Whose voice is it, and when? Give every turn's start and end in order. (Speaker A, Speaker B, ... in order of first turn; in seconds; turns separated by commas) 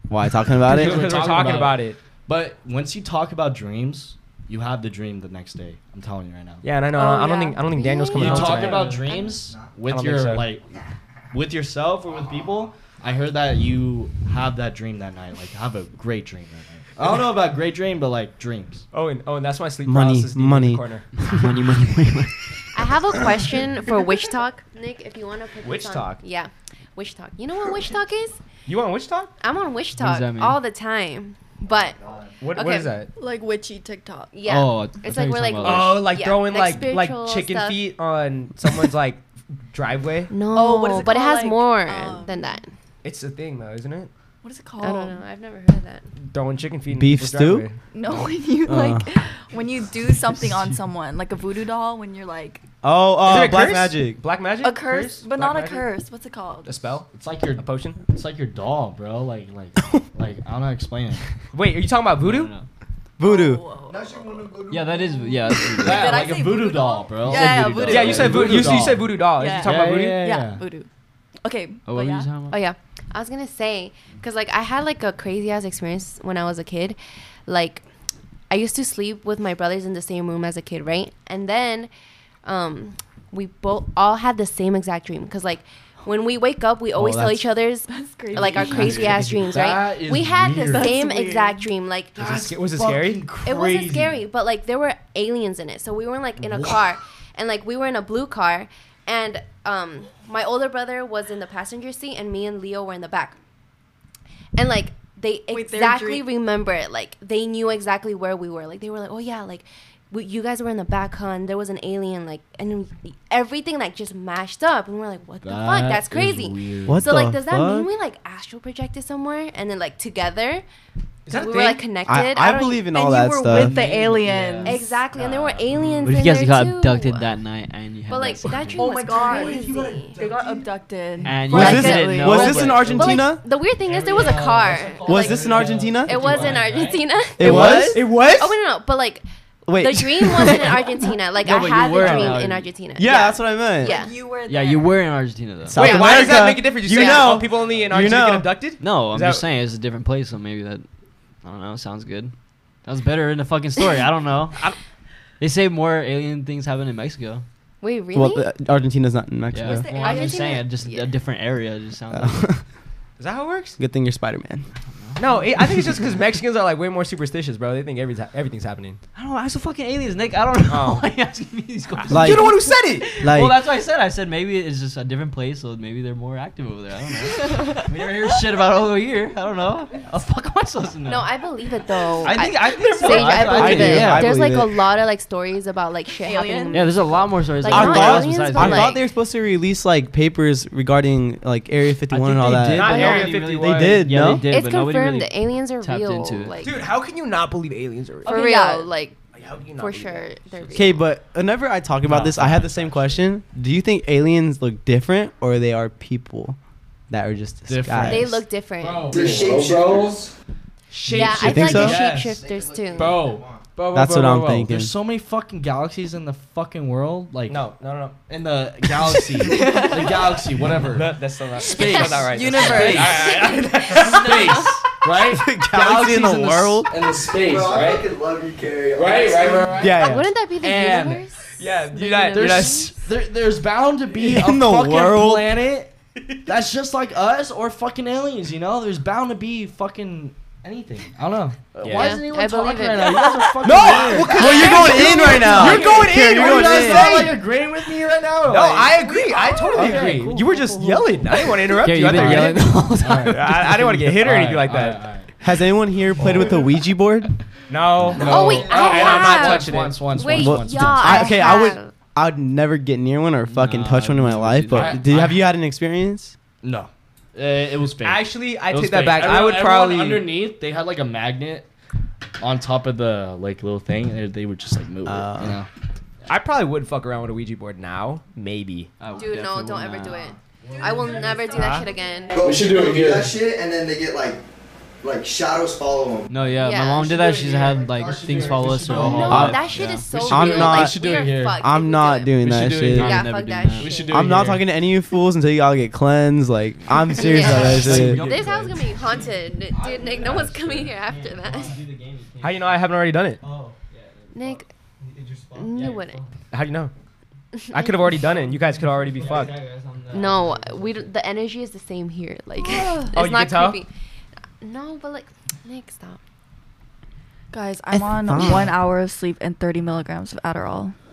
Speaker A: 0.1-1.5, Speaker B: 0.6-6.7, Speaker C: 0.7-2.0, Speaker C: 6.6-9.0, Speaker D: 6.9-7.8, Speaker E: 7.7-9.5, Speaker B: 8.1-10.7, Speaker F: 8.2-9.0, Speaker C: 9.9-10.5, Speaker B: 11.3-18.9, Speaker C: 18.9-21.1, Speaker A: 19.8-20.9, Speaker F: 21.2-22.5, Speaker E: 22.7-28.4, Speaker C: 25.6-26.2, Speaker C: 28.6-29.3, Speaker E: 29.4-32.9, Speaker F: 30.0-30.6, Speaker G: 32.0-32.3, Speaker C: 32.4-33.1, Speaker D: 33.2-34.3, Speaker E: 34.3-37.8, Speaker F: 34.4-36.0, Speaker C: 35.6-40.3, Speaker E: 40.3-42.7, Speaker D: 40.5-42.5, Speaker C: 43.0-44.1, Speaker D: 44.4-45.2, Speaker E: 44.8-46.1, Speaker C: 46.2-47.8, Speaker A: 46.9-47.6, Speaker D: 47.9-52.6, Speaker A: 48.6-49.0, Speaker A: 52.8-54.2, Speaker C: 53.2-55.9, Speaker D: 54.6-56.8, Speaker C: 56.6-58.0, Speaker B: 57.1-61.2, Speaker C: 61.5-62.5, Speaker F: 62.2-62.6, Speaker A: 63.2-63.6, Speaker D: 63.2-64.3, Speaker G: 63.9-65.3, Speaker F: 64.7-66.3, Speaker D: 65.0-68.3, Speaker B: 65.8-70.6, Speaker F: 67.3-68.3, Speaker C: 67.9-70.2, Speaker D: 69.3-70.9, Speaker D: 71.4-72.3, Speaker F: 71.8-72.6, Speaker E: 72.5-77.8, Speaker E: 78.5-81.9, Speaker E: 82.4-92.2, Speaker A: 86.9-87.5, Speaker D: 87.9-89.2, Speaker B: 88.3-90.9, Speaker D: 90.5-91.6, Speaker B: 92.1-94.2, Speaker C: 92.2-93.2, Speaker E: 93.4-103.4, Speaker B: 96.4-96.8, Speaker E: 104.5-120.6, Speaker D: 105.5-106.2, Speaker B: 115.4-117.1, Speaker A: 116.8-117.9, Speaker C: 121.3-121.8, Speaker E: 121.3-122.9, Speaker A: 122.0-123.8, Speaker D: 122.9-124.8, Speaker B: 123.5-126.1, Speaker E: 124.7-127.3, Speaker F: 126.0-128.9, Speaker E: 128.1-130.2, Speaker D: 128.8-132.8, Speaker B: 129.2-130.6, Speaker F: 131.2-133.3, Speaker A: 131.5-133.4, Speaker E: 131.5-144.1, Speaker F: 133.9-137.0, Speaker B: 134.0-136.8, Speaker A: 135.0-136.4, Speaker A: 137.4-138.0, Speaker C: 137.4-138.5, Speaker A: 139.7-140.8, Speaker F: 141.4-142.7, Speaker C: 142.0-142.3, Speaker A: 142.9-144.0, Speaker D: 143.8-145.1, Speaker F: 144.5-145.8, Speaker A: 145.7-148.5, Speaker E: 145.7-147.4, Speaker C: 145.8-149.4, Speaker F: 148.8-150.8, Speaker F: 151.4-152.3, Speaker F: 152.8-154.8, Speaker F: 155.4-157.4, Speaker E: 157.8-158.5, Speaker A: 158.1-159.9, Speaker F: 159.5-162.5, Speaker D: 159.6-160.6, Speaker E: 159.9-161.1, Speaker A: 162.1-162.6, Speaker C: 163.2-163.8, Speaker A: 163.8-164.7, Speaker F: 165.0-165.4, Speaker C: 165.2-169.0, Speaker F: 169.1-181.2, Speaker C: 170.7-171.1, Speaker C: 172.0-173.1, Speaker A: 172.1-172.5, Speaker A: 173.2-173.7, Speaker D: 177.4-177.8, Speaker E: 181.0-189.0, Speaker F: 182.2-184.3, Speaker B: 183.0-184.1, Speaker A: 183.5-184.8, Speaker D: 186.2-186.9, Speaker F: 186.7-188.9, Speaker A: 187.7-194.5, Speaker F: 192.1-196.7, Speaker C: 192.6-194.2, Speaker E: 194.4-196.8, Speaker C: 196.6-198.4, Speaker D: 198.2-198.9, Speaker E: 198.2-199.2, Speaker C: 199.3-200.9, Speaker E: 199.7-201.1, Speaker A: 200.7-206.6, Speaker B: 202.1-203.2, Speaker A: 207.1-208.4, Speaker B: 207.7-210.2, Speaker E: 208.0-209.3, Speaker G: 209.1-210.3, Speaker B: 210.9-212.4, Speaker E: 211.1-213.3, Speaker A: 211.3-212.0, Speaker G: 212.2-213.6, Speaker B: 212.9-213.5, Speaker C: 213.8-214.5, Speaker A: 213.9-214.9, Speaker B: 214.3-217.6, Speaker C: 217.5-218.2, Speaker B: 218.3-228.1, Speaker D: 219.4-220.4, Speaker C: 220.7-224.7, Speaker E: 221.8-222.1, Speaker D: 222.0-223.6, Speaker A: 225.3-226.9, Speaker G: 227.4-229.8, Speaker B: 228.9-230.0, Speaker A: 229.8-230.3, Speaker E: 229.8-232.9, Speaker B: 230.6-231.2, Speaker C: 231.6-232.9, Speaker B: 232.3-235.9, Speaker A: 234.1-235.5, Speaker B: 236.4-251.5, Speaker C: 241.8-242.2, Speaker E: 241.8-245.8, Speaker C: 243.6-247.4, Speaker A: 244.3-247.3, Speaker C: 248.4-255.0, Speaker F: 251.8-253.6, Speaker B: 252.0-255.3, Speaker A: 255.4-257.3, Speaker B: 256.2-256.6, Speaker C: 256.2-256.6, Speaker C: 257.7-260.0, Speaker B: 258.1-261.3, Speaker E: 258.2-261.9, Speaker A: 260.3-266.3, Speaker F: 263.5-265.0, Speaker B: 264.7-265.5, Speaker B: 266.6-271.7, Speaker C: 268.0-270.3, Speaker B: 272.4-275.7, Speaker A: 275.0-275.6, Speaker C: 276.3-278.9, Speaker F: 279.0-280.3, Speaker E: 279.1-282.5, Speaker B: 280.6-281.5, Speaker C: 281.5-281.9, Speaker D: 281.6-282.3, Speaker G: 282.3-284.4, Speaker B: 282.4-283.4, Speaker G: 285.0-286.4, Speaker F: 286.3-290.0, Speaker E: 286.6-287.2, Speaker B: 287.0-291.6, Speaker G: 287.9-288.8, Speaker E: 288.9-292.5, Speaker A: 289.2-293.2, Speaker B: 292.4-294.7, Speaker F: 292.9-294.2, Speaker E: 293.0-294.3, Speaker A: 294.1-298.2, Speaker E: 297.1-301.8, Speaker F: 297.4-302.8, Speaker B: 297.5-298.6, Speaker C: 302.4-303.4, Speaker F: 303.4-306.3, Speaker E: 304.3-304.7, Speaker E: 305.5-306.2, Speaker C: 306.5-306.9, Speaker E: 307.5-308.2, Speaker C: 307.7-309.5, Speaker F: 308.7-311.1, Speaker E: 310.1-313.9, Speaker D: 312.6-313.1, Speaker C: 313.1-313.8, Speaker E: 314.6-316.2, Speaker D: 317.5-320.9, Speaker A: 317.9-318.7